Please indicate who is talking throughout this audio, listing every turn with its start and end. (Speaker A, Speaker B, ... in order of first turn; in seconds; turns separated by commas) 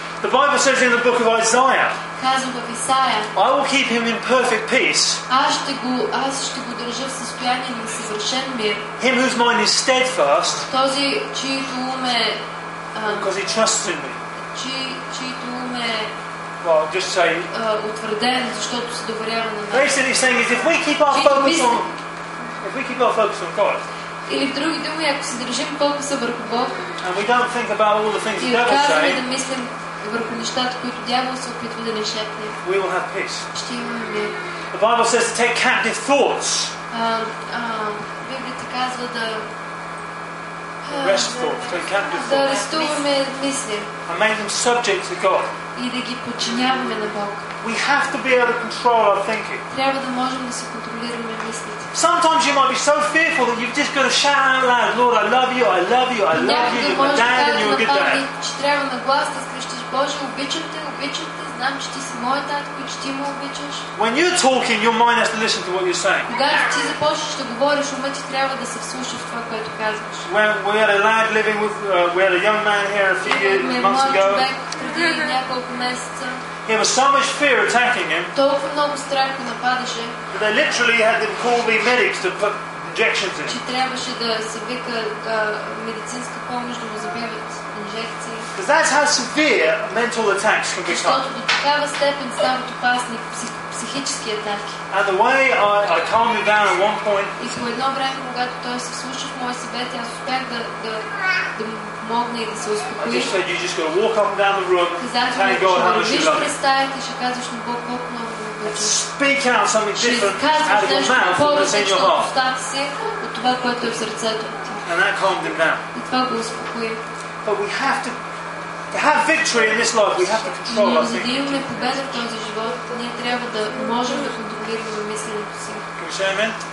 Speaker A: 0.2-2.0, Speaker B: 2.2-3.3, Speaker A: 3.4-5.2, Speaker B: 5.3-8.9, Speaker A: 9.0-10.7, Speaker B: 10.7-12.4, Speaker B: 12.9-13.3, Speaker A: 13.1-14.2, Speaker B: 14.5-16.1, Speaker A: 16.6-17.5, Speaker B: 17.5-20.0, Speaker A: 19.7-21.9, Speaker B: 21.1-21.9, Speaker A: 22.6-23.8, Speaker B: 24.3-26.8, Speaker A: 27.0-29.2, Speaker B: 28.4-32.6, Speaker A: 32.6-33.5, Speaker B: 33.5-34.4, Speaker A: 34.7-36.7, Speaker B: 36.9-39.5, Speaker B: 40.8-43.9, Speaker A: 40.9-43.0, Speaker A: 44.1-45.5, Speaker B: 45.8-47.5, Speaker A: 47.6-49.6, Speaker B: 49.7-51.9, Speaker A: 51.9-58.2, Speaker B: 56.3-63.9, Speaker A: 64.0-66.3, Speaker B: 66.3-70.3, Speaker A: 70.3-74.5, Speaker B: 73.2-76.4, Speaker A: 76.7-78.3, Speaker B: 78.3-80.2, Speaker A: 80.3-83.6, Speaker B: 83.5-88.5, Speaker A: 88.5-91.2, Speaker B: 90.9-94.8, Speaker A: 94.9-97.4, Speaker B: 97.4-103.3, Speaker A: 103.0-106.5, Speaker B: 105.0-109.0, Speaker A: 108.6-112.3, Speaker B: 110.0-114.8, Speaker A: 114.8-115.8, Speaker B: 115.9-117.0, Speaker A: 117.4-118.2, Speaker A: 118.9-121.7, Speaker B: 120.7-125.8, Speaker A: 126.0-126.6